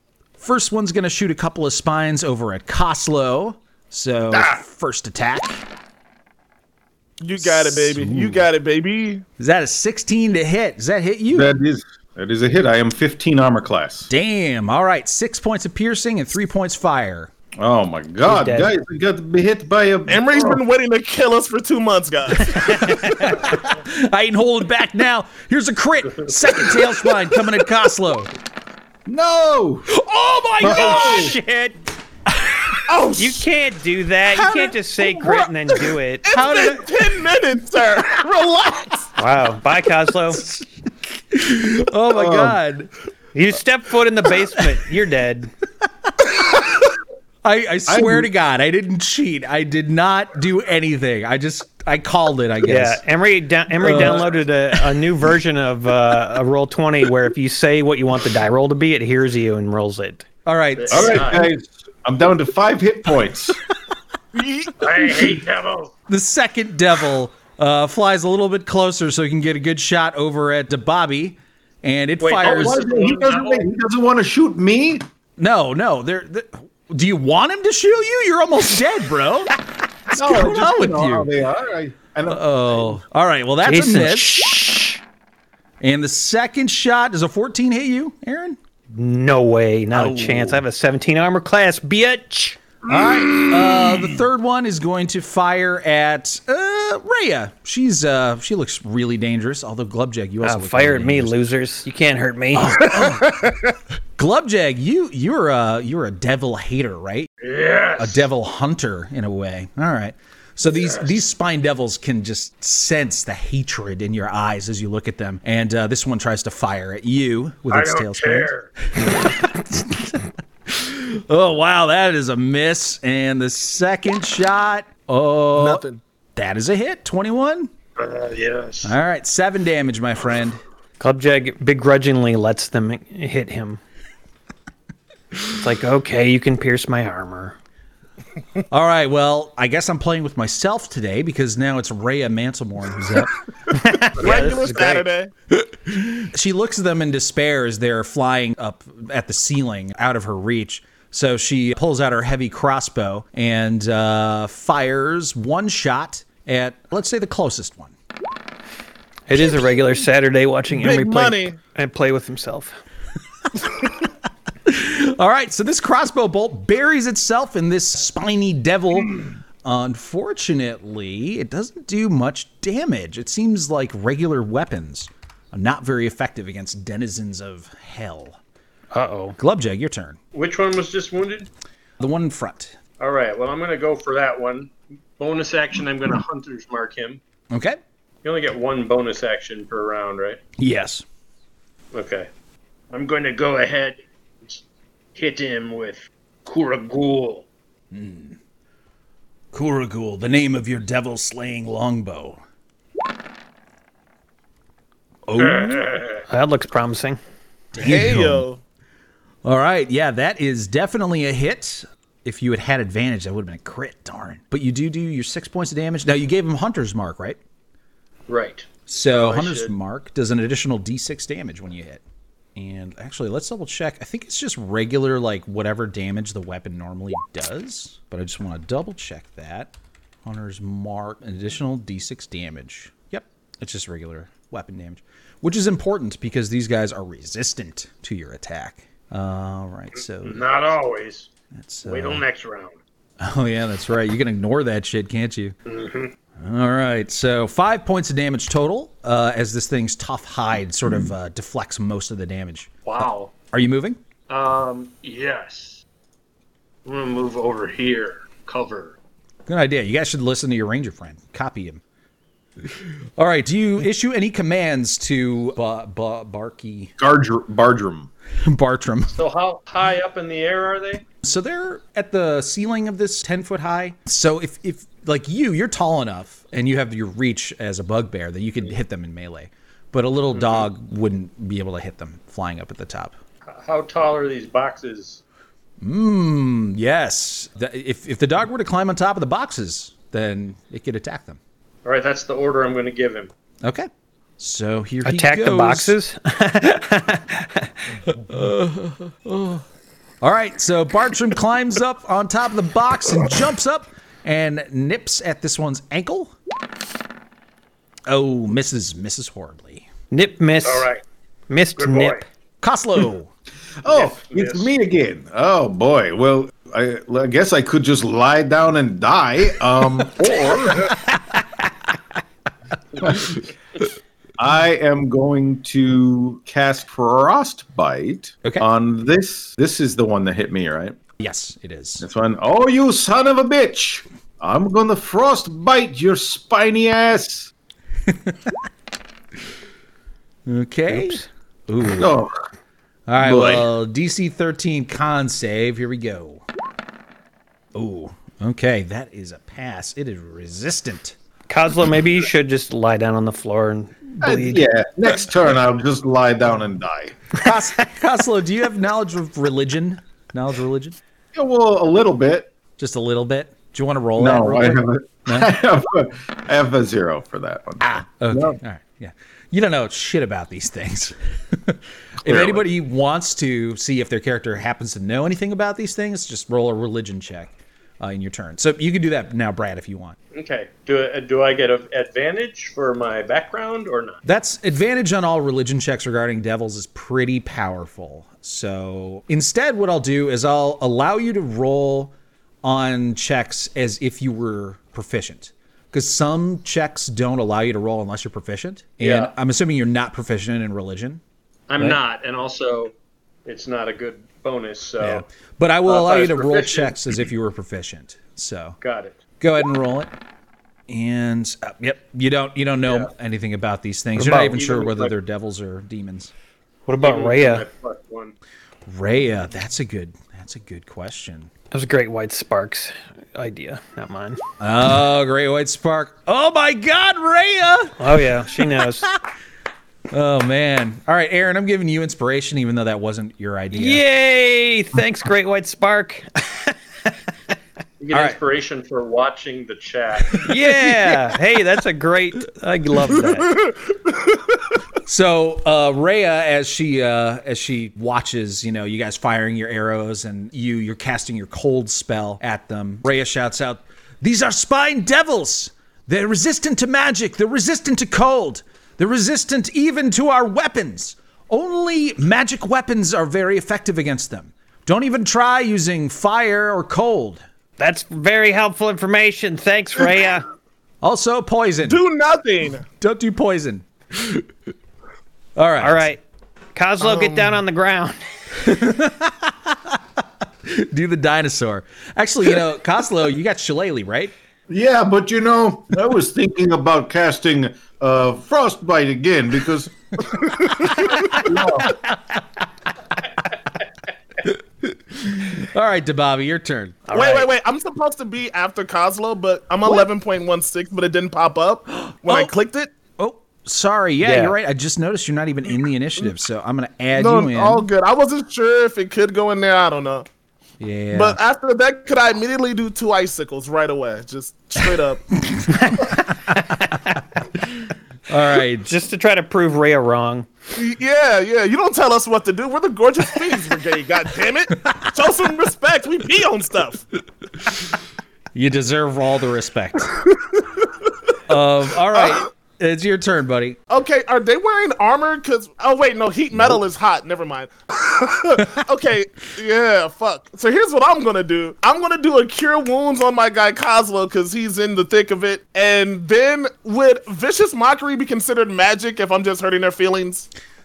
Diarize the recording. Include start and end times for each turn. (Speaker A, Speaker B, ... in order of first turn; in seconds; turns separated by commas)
Speaker A: 0.4-5.7, Speaker B: 7.2-9.3, Speaker A: 7.4-8.5, Speaker A: 9.4-11.5, Speaker C: 11.3-14.1, Speaker A: 14.1-17.3, Speaker C: 17.6-20.6, Speaker D: 18.2-18.8, Speaker B: 20.1-23.4, Speaker D: 22.6-23.4, Speaker A: 23.2-28.3, Speaker C: 29.1-29.9, Speaker A: 29.9-31.3, Speaker C: 30.6-31.4, Speaker D: 30.6-31.8, Speaker B: 30.7-31.2, Speaker A: 32.3-32.8, Speaker B: 32.9-33.5, Speaker D: 33.2-36.4, Speaker B: 36.2-39.1, Speaker A: 36.4-36.9, Speaker D: 39.2-40.4, Speaker A: 40.4-42.9, Speaker C: 42.1-42.6, Speaker D: 43.4-45.5, Speaker A: 46.1-46.5, Speaker A: 47.4-53.0, Speaker C: 47.9-48.3, Speaker D: 52.7-60.3, Speaker A: 53.8-54.3, Speaker A: 60.5-61.4, Speaker E: 60.8-61.5, Speaker C: 60.9-63.6, Speaker B: 64.3-65.3, Speaker E: 64.8-65.9, Speaker A: 66.1-72.8, Speaker E: 72.2-73.7, Speaker C: 72.4-75.0, Speaker A: 75.4-81.3, Speaker C: 80.1-83.0, Speaker A: 82.3-84.5, Speaker D: 83.7-85.0, Speaker A: 85.8-88.6, Speaker D: 88.9-92.6, Speaker A: 89.9-90.6, Speaker A: 92.9-101.4, Speaker D: 100.4-103.0, Speaker A: 102.5-103.5, Speaker A: 104.2-107.3, Speaker E: 107.4-108.3, Speaker A: 108.0-125.8, Speaker E: 110.7-111.2, Speaker E: 117.7-118.7, Speaker B: 125.5-126.0, Speaker A: 126.4-127.7, Speaker E: 128.0-129.0, Speaker A: 128.8-130.6, Speaker D: 131.0-133.8, Speaker D: 135.5-137.6, Speaker A: 138.7-143.4, Speaker D: 143.7-145.1, Speaker B: 144.2-145.3, Speaker A: 145.7-157.9, Speaker D: 159.3-162.8, Speaker B: 160.8-161.6, Speaker A: 164.7-178.4, Speaker D: 178.9-179.4, Speaker A: 179.4-180.2, Speaker E: 180.3-181.5, Speaker A: 182.0-182.8, Speaker E: 183.0-187.2, Speaker A: 187.5-187.8, Speaker E: 188.2-190.4, Speaker A: 190.6-191.1, Speaker E: 191.9-192.3, Speaker E: 192.9-194.6, Speaker E: 195.2-197.5, Speaker A: 197.9-198.4, Speaker A: 199.5-202.4, Speaker A: 205.3-205.9, Speaker E: 205.4-206.2, Speaker D: 206.3-207.2, Speaker A: 207.7-208.4, Speaker B: 207.8-208.6, Speaker A: 209.4-217.4, Speaker E: 218.3-219.7, Speaker A: 218.9-222.0, Speaker A: 222.6-229.7, Speaker A: 230.2-240.4, Speaker E: 240.2-241.3, Speaker A: 241.6-242.2, Speaker E: 241.8-242.8, Speaker A: 243.2-245.6, Speaker E: 245.7-246.1, Speaker A: 246.4-252.7, Speaker E: 252.8-253.3, Speaker A: 253.5-254.0, Speaker E: 254.3-255.8, Speaker E: 256.9-259.0, Speaker A: 259.5-261.8, Speaker A: 262.8-266.9, Speaker C: 267.0-268.1, Speaker A: 268.4-269.1, Speaker E: 269.1-271.1, Speaker A: 271.2-283.2, Speaker E: 280.3-280.7, Speaker E: 283.5-285.2, Speaker A: 285.8-291.4, Speaker E: 291.9-293.3, Speaker A: 293.6-295.9, Speaker D: 295.0-297.7, Speaker A: 298.1-299.6, Speaker A: 300.2-306.3, Speaker A: 308.1-309.9, Speaker D: 310.1-310.9, Speaker E: 310.6-311.0, Speaker D: 311.5-312.2, Speaker E: 311.8-312.2, Speaker A: 312.6-313.3, Speaker C: 313.8-321.0, Speaker E: 313.9-314.7, Speaker C: 323.0-323.3, Speaker C: 324.4-331.0, Speaker A: 331.2-332.1, Speaker C: 332.0-337.5, Speaker A: 338.1-338.4, Speaker A: 340.5-342.1, Speaker C: 341.9-342.4, Speaker A: 343.1-346.4, Speaker C: 343.2-343.7, Speaker A: 347.7-351.2, Speaker D: 351.5-354.6, Speaker C: 354.2-357.3, Speaker A: 357.4-361.0, Speaker C: 361.3-362.5, Speaker A: 362.8-365.5, Speaker C: 364.2-368.6, Speaker A: 367.8-380.2, Speaker C: 372.2-372.6, Speaker E: 380.3-384.2, Speaker A: 384.2-392.1, Speaker A: 392.6-401.2, Speaker E: 399.0-399.3, Speaker E: 401.7-402.9, Speaker E: 403.4-405.2, Speaker A: 405.0-408.8, Speaker E: 405.9-407.0, Speaker E: 408.8-409.2, Speaker A: 409.4-410.1, Speaker A: 410.9-416.3, Speaker E: 412.8-413.1, Speaker D: 414.2-414.6, Speaker E: 414.2-415.1, Speaker D: 416.9-417.7, Speaker E: 417.0-418.4, Speaker A: 418.9-421.5, Speaker D: 421.7-424.4, Speaker A: 424.6-429.2, Speaker D: 428.0-429.1, Speaker A: 430.1-434.0, Speaker D: 433.7-436.8, Speaker E: 438.0-440.6, Speaker D: 440.4-443.6, Speaker B: 443.5-444.4, Speaker A: 445.1-467.4, Speaker D: 467.8-470.5, Speaker A: 471.0-472.0, Speaker B: 471.9-472.9, Speaker A: 472.9-474.5, Speaker A: 475.6-476.1, Speaker D: 475.8-476.2, Speaker D: 476.8-478.2, Speaker B: 477.0-477.6, Speaker A: 478.6-480.0, Speaker A: 480.6-484.3, Speaker C: 484.7-490.3, Speaker B: 490.4-491.4, Speaker A: 490.9-492.1, Speaker C: 491.2-491.9, Speaker A: 494.4-497.1, Speaker D: 497.1-497.5, Speaker B: 497.1-502.9, Speaker A: 502.1-502.5, Speaker A: 503.2-507.9, Speaker D: 504.2-504.6, Speaker B: 507.1-510.3, Speaker A: 510.8-511.4, Speaker B: 511.1-515.2, Speaker D: 515.9-516.1, Speaker A: 518.3-518.9, Speaker D: 518.9-520.5, Speaker B: 520.8-527.0, Speaker A: 528.5-530.3, Speaker A: 531.5-533.8, Speaker B: 532.1-532.4, Speaker B: 533.9-550.5